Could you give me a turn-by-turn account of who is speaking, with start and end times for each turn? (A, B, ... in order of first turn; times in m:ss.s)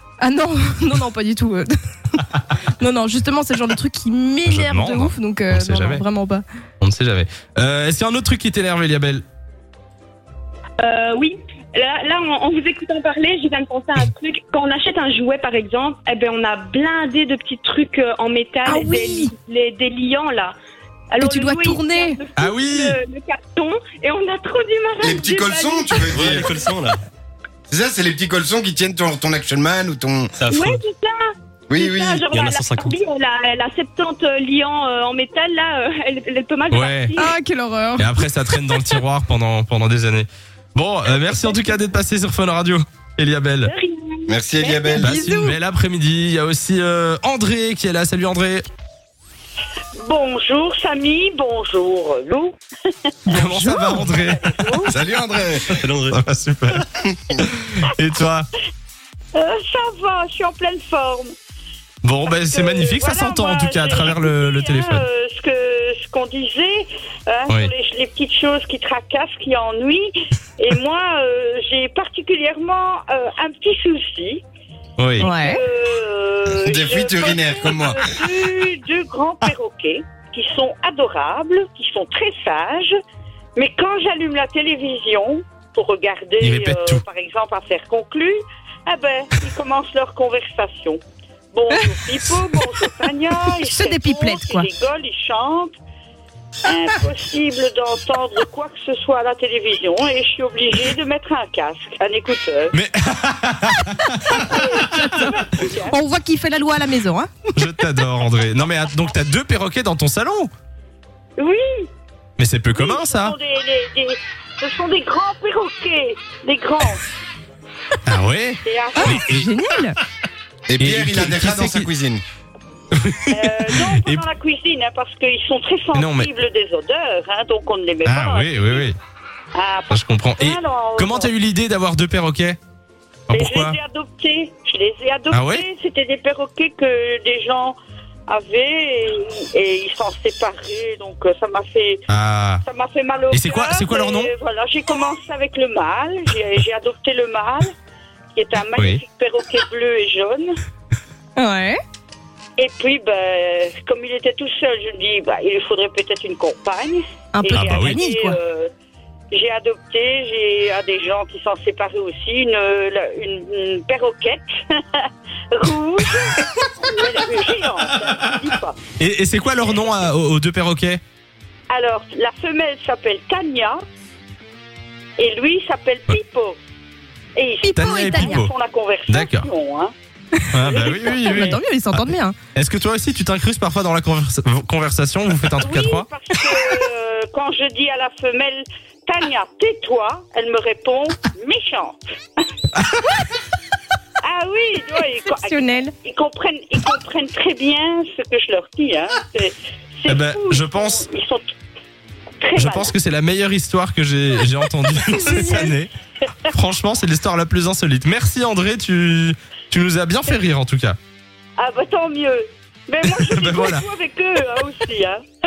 0:00.2-0:06.4 A
0:04.5-0:06.0 B
0:06.8-0:09.2 B
0:10.8-0:20.5 C
0:18.6-0:19.3 A
0:21.1-0:26.2 C
0:21.2-0:22.2 A
0:22.4-0:23.0 B
0:25.0-0:26.5 D
0:26.0-0:27.0 E
0:27.7-0:30.3 D
0:30.4-0:30.8 E
0:30.5-0:31.2 C
0:31.7-0:32.3 D
0:31.8-0:37.4 C
0:32.3-0:33.0 E
0:36.7-0:37.2 B
0:37.2-0:39.0 A
0:38.0-0:43.7 B
0:43.6-0:45.2 C
0:44.3-0:45.2 D
0:45.0-0:48.7 B
0:45.1-0:45.6 A
0:50.0-0:52.6 F
0:53.3-0:54.9 F
0:53.3-0:54.9 B
0:54.9-0:55.7 D
0:55.7-0:56.2 E
0:56.1-0:56.8 B
0:57.0-0:57.3 D
0:57.4-0:58.5 B
0:59.4-1:01.3 F
1:02.0-1:05.1 B
1:02.3-1:14.4 F
1:15.0-1:15.3 B
1:15.2-1:22.9 F
1:15.2-1:15.6 A
1:16.5-1:18.3 D
1:23.6-1:31.0 F
1:26.4-1:27.0 B
1:31.5-1:35.8 F
1:33.6-1:34.7 A
1:36.6-1:42.7 F
1:42.7-1:44.6 B
1:44.3-1:46.0 F
1:44.8-1:47.3 A
1:47.6-1:50.5 B
1:51.4-1:51.9 F
1:52.4-1:53.4 B
1:52.8-1:57.1 F
1:58.0-1:59.5 B
1:58.6-1:59.2 F
1:59.0-2:00.0 A
2:00.7-2:02.2 D
2:00.8-2:01.9 B
2:02.9-2:04.2 B
2:03.3-2:08.9 F
2:05.9-2:06.3 B
2:08.0-2:09.0 B
2:09.6-2:11.3 F
2:09.9-2:12.6 B
2:13.3-2:13.8 B
2:13.3-2:17.8 F
2:15.3-2:15.6 B
2:18.3-2:22.0 F
2:22.1-2:22.6 B
2:22.6-2:27.7 F
2:23.3-2:24.3 B
2:28.3-2:30.6 F
2:28.8-2:29.0 B
2:31.4-2:31.8 A
2:32.6-2:38.7 F
2:37.3-2:38.4 A
2:37.5-2:38.0 B
2:39.3-2:48.8 F
2:49.0-2:51.0 B
2:51.7-2:53.8 F
2:55.2-2:56.6 F
2:57.4-2:59.9 F
2:57.6-2:58.4 A
2:57.7-2:58.5 B
2:59.1-2:59.5 B
3:00.4-3:02.4 A
3:00.5-3:06.1 B
3:00.6-3:01.6 F
3:05.6-3:12.0 F
3:12.8-3:13.0 B
3:14.2-3:21.4 F
3:15.4-3:15.9 A
3:20.1-3:21.0 B
3:22.4-3:22.9 F
3:22.6-3:25.9 B
3:25.2-3:25.6 F
3:25.2-3:25.7 A
3:26.5-3:31.0 B
3:31.6-3:35.2 F
3:33.0-3:33.8 B